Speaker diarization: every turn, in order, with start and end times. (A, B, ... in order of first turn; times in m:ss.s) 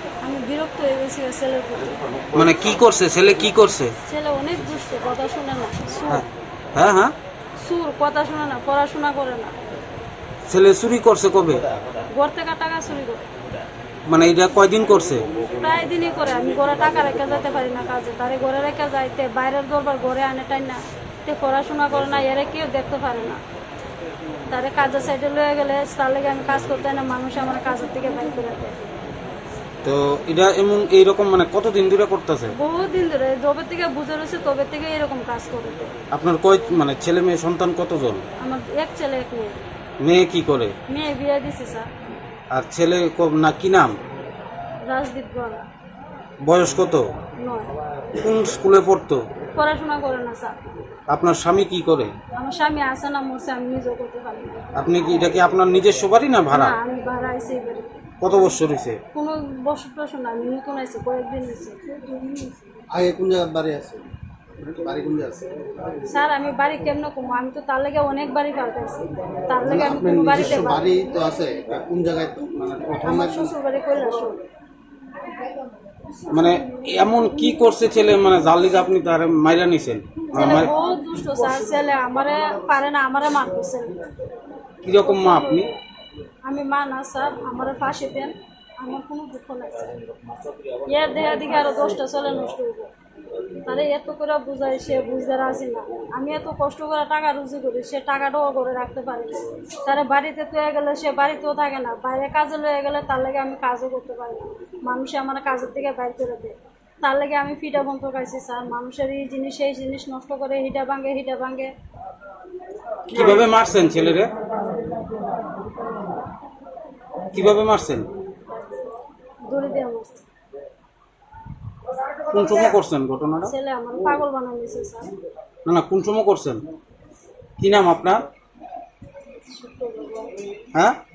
0:00.2-0:02.3 A
0:02.3-0:03.9 B
0:04.1-0:06.2 A
0:06.1-0:07.1 B
0:07.6-0:09.5 A
0:10.5-0:11.6 B
0:12.1-0:13.3 A
0:14.1-0:15.3 B
0:15.5-0:23.4 A
0:24.5-0:28.8 A
0:29.8-0:32.5 B
0:32.5-0:35.9 A
0:36.1-0:38.2 B
0:38.4-0:39.6 A
0:40.0-0:40.7 B
0:40.9-0:41.9 A
0:42.5-0:44.0 B
0:44.9-0:45.6 A
0:46.4-0:47.1 B
0:47.4-0:47.7 A
0:48.2-0:49.2 B
0:49.5-0:50.5 A
0:51.1-0:52.1 B
0:52.3-0:54.6 A
0:54.7-0:56.8 B
0:56.5-0:57.9 A
0:58.2-0:59.0 B
0:59.1-1:02.5 A
1:02.9-1:04.0 C
1:04.6-1:05.5 C
1:06.0-1:10.8 A
1:09.6-1:13.5 C
1:13.0-1:14.4 A
1:16.3-1:20.7 B
1:20.3-1:24.0 A
1:24.8-1:25.7 B
1:25.0-1:25.8 A
1:26.5-1:30.1 A
1:30.8-1:32.9 A
1:33.6-1:51.7 A
1:53.1-1:54.3 B
1:53.1-1:53.5 A
1:57.3-1:58.1 B
1:59.5-2:00.2 A
2:02.3-2:03.5 B
2:03.4-2:05.1 A
2:05.6-2:06.6 B
2:07.6-2:08.2 B
2:09.4-2:10.4 A